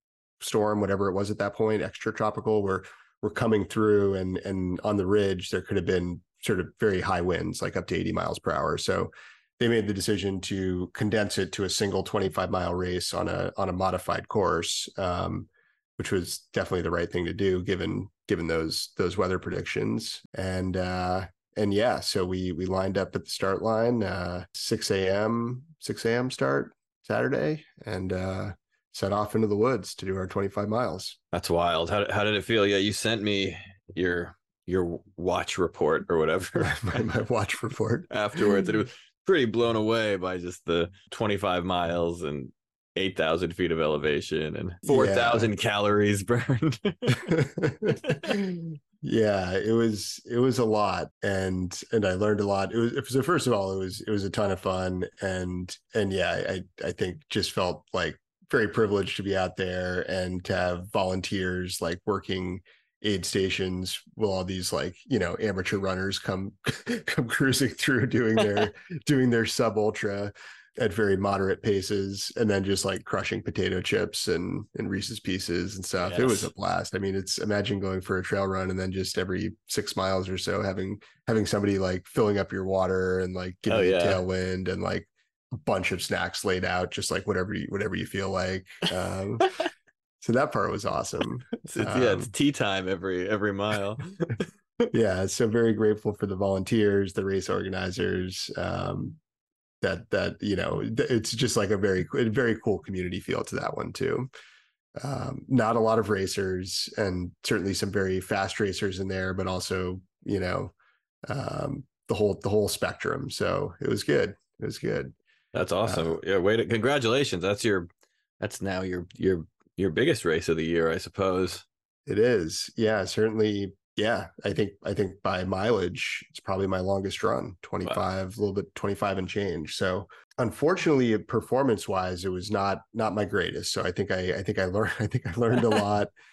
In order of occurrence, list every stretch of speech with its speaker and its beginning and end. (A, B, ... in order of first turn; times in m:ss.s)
0:00.4-0:31.2 A
0:31.3-0:37.0 B
0:36.6-0:38.6 A
0:38.1-0:47.3 B
0:44.9-0:45.5 A
0:47.2-1:29.5 A
1:16.0-1:16.5 B
1:23.7-1:24.2 B
1:30.2-1:32.3 A
1:31.6-1:34.9 B
1:34.9-1:39.2 A
1:39.8-1:44.3 A
1:45.0-1:50.7 A
1:51.3-1:55.2 A
1:55.5-1:57.9 B
1:55.8-1:56.2 A
1:58.4-2:01.6 B
2:02.1-2:16.1 A